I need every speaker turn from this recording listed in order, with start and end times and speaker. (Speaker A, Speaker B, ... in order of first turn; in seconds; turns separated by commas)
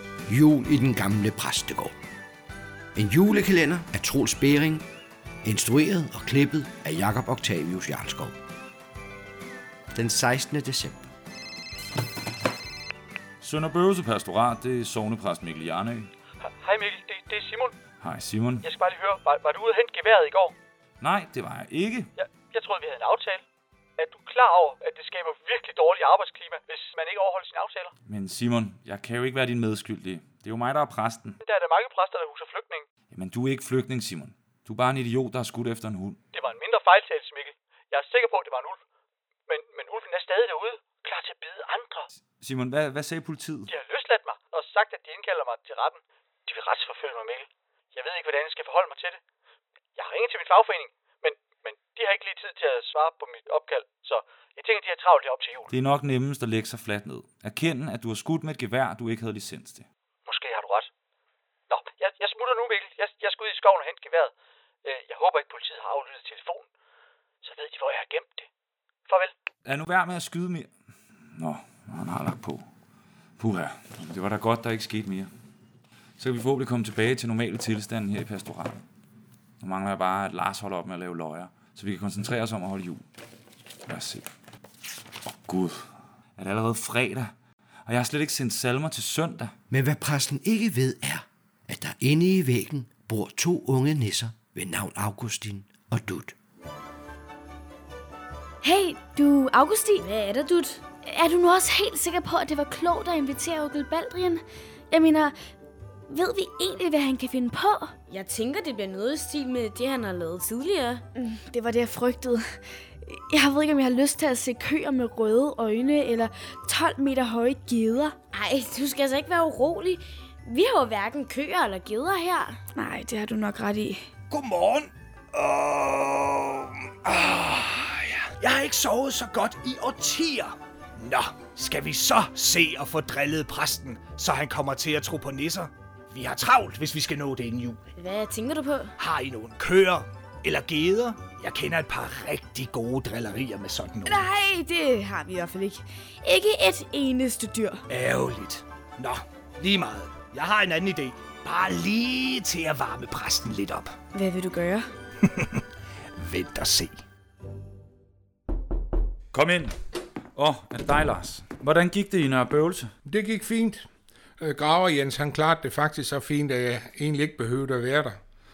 Speaker A: 0.3-1.9, Speaker A: 3.0-4.8, Speaker A: 5.4-8.3, Speaker A: 9.9-11.0, Speaker B: 13.4-16.1, Speaker C: 16.6-17.8, Speaker B: 18.0-18.6, Speaker C: 18.6-20.5, Speaker B: 21.0-22.1, Speaker C: 22.2-23.4, Speaker C: 24.0-27.9, Speaker B: 28.1-31.4, Speaker C: 31.4-32.9, Speaker B: 33.1-36.2, Speaker C: 36.3-38.8, Speaker C: 39.5-42.0, Speaker B: 42.2-43.7, Speaker C: 43.7-49.2, Speaker C: 49.9-55.7, Speaker B: 55.7-59.9, Speaker C: 60.2-60.9, Speaker C: 61.7-66.7, Speaker C: 67.4-68.5, Speaker C: 69.1-69.3, Speaker B: 69.6-70.7, Speaker B: 71.3-72.6, Speaker B: 73.4-75.3, Speaker B: 76.2-78.8, Speaker B: 79.6-83.0, Speaker B: 83.9-84.3, Speaker B: 85.3-87.3, Speaker B: 87.8-89.5, Speaker A: 89.7-96.3, Speaker D: 98.6-100.1, Speaker E: 100.0-100.8, Speaker D: 101.0-105.3, Speaker D: 106.1-108.0, Speaker E: 108.1-111.0, Speaker D: 111.1-118.2, Speaker E: 118.3-122.6, Speaker D: 122.3-124.0, Speaker F: 124.3-137.8, Speaker E: 137.9-138.9, Speaker F: 139.0-144.2, Speaker D: 144.0-147.8, Speaker F: 147.9-153.9, Speaker D: 154.1-154.9, Speaker F: 155.3-155.6, Speaker F: 156.2-156.9, Speaker B: 159.3-159.7, Speaker B: 160.3-162.9, Speaker G: 163.0-163.9, Speaker G: 164.4-168.2